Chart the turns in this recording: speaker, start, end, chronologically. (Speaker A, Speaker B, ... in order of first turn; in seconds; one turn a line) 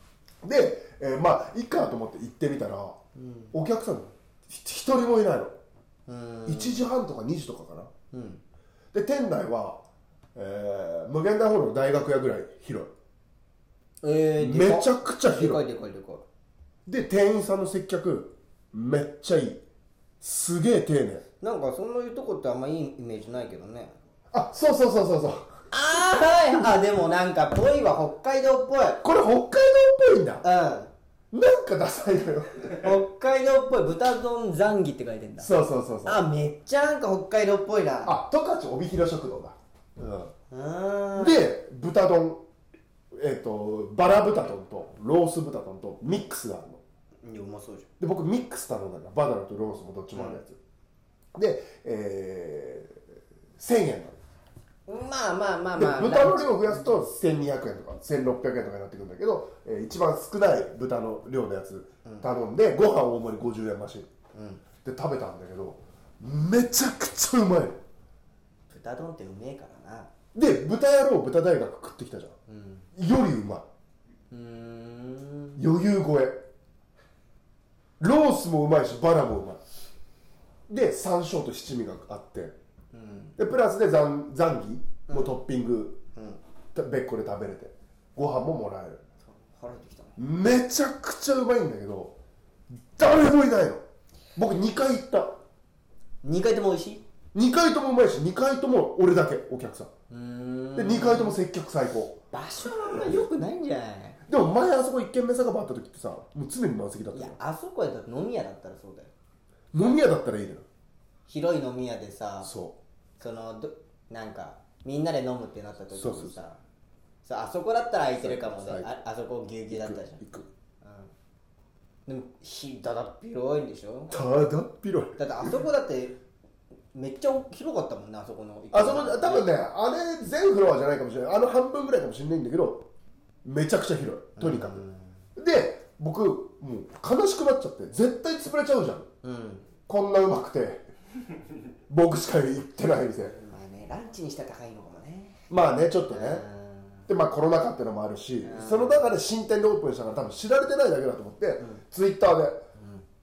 Speaker A: 0.4-3.0
Speaker B: 3.1-3.5
Speaker A: 3.5-5.6
Speaker B: 6.1-6.8
Speaker A: 6.5-7.9
Speaker B: 8.1-8.4
Speaker A: 8.9-9.8
Speaker A: 10.3-12.9
Speaker B: 14.0-16.2
Speaker A: 14.4-15.6
Speaker A: 16.9-19.6
Speaker A: 20.2-21.2
Speaker B: 21.4-23.9
Speaker A: 24.3-25.5
Speaker B: 25.7-29.0
Speaker A: 29.0-30.4
Speaker B: 30.4-30.9
Speaker A: 31.3-32.9
Speaker B: 32.8-35.5
Speaker A: 35.4-36.2
Speaker B: 36.0-38.1
Speaker A: 38.0-40.3
Speaker B: 40.5-41.4
Speaker A: 41.1-42.4
Speaker A: 43.1-46.8
Speaker B: 47.2-47.9
Speaker A: 48.0-50.6
Speaker B: 50.1-50.4
Speaker A: 51.3-54.2
Speaker B: 54.9-56.8
Speaker A: 55.7-64.1
Speaker B: 64.3-64.6
Speaker A: 64.8-67.8
Speaker B: 68.7-70.1
Speaker A: 70.3-72.3
Speaker B: 72.5-72.9
Speaker A: 72.9-73.7
Speaker B: 74.3-75.6
Speaker A: 75.6-76.4
Speaker A: 78.0-79.6
Speaker A: 80.7-82.5
Speaker B: 82.9-83.4
Speaker A: 83.4-86.0
Speaker B: 85.1-85.3
Speaker B: 86.1-86.4
Speaker A: 86.7-89.0
Speaker B: 89.2-90.2
Speaker A: 90.2-92.2
Speaker A: 92.9-93.8
Speaker A: 94.3-95.4
Speaker B: 96.2-97.0
Speaker A: 97.3-99.9
Speaker B: 100.1-101.4
Speaker A: 100.7-102.2
Speaker B: 102.3-104.2
Speaker A: 104.3-107.4
Speaker B: 107.1-109.1
Speaker A: 109.7-110.7
Speaker B: 111.3-112.5
Speaker A: 112.4-112.8
Speaker B: 113.2-116.6
Speaker A: 115.9-116.4
Speaker B: 117.2-120.2
Speaker A: 118.1-118.9
Speaker A: 119.7-120.5
Speaker B: 120.8-121.1
Speaker B: 122.0-124.1
Speaker A: 124.1-125.5
Speaker B: 125.2-126.2
Speaker B: 126.9-129.5
Speaker A: 128.7-132.9
Speaker A: 133.4-134.8
Speaker B: 134.4-135.2
Speaker A: 135.3-139.1
Speaker B: 139.2-139.7
Speaker A: 139.9-140.9
Speaker A: 141.9-143.3
Speaker B: 143.2-145.4
Speaker A: 145.5-146.4
Speaker B: 146.1-147.1
Speaker A: 147.1-152.6
Speaker B: 148.4-149.1
Speaker B: 152.8-153.0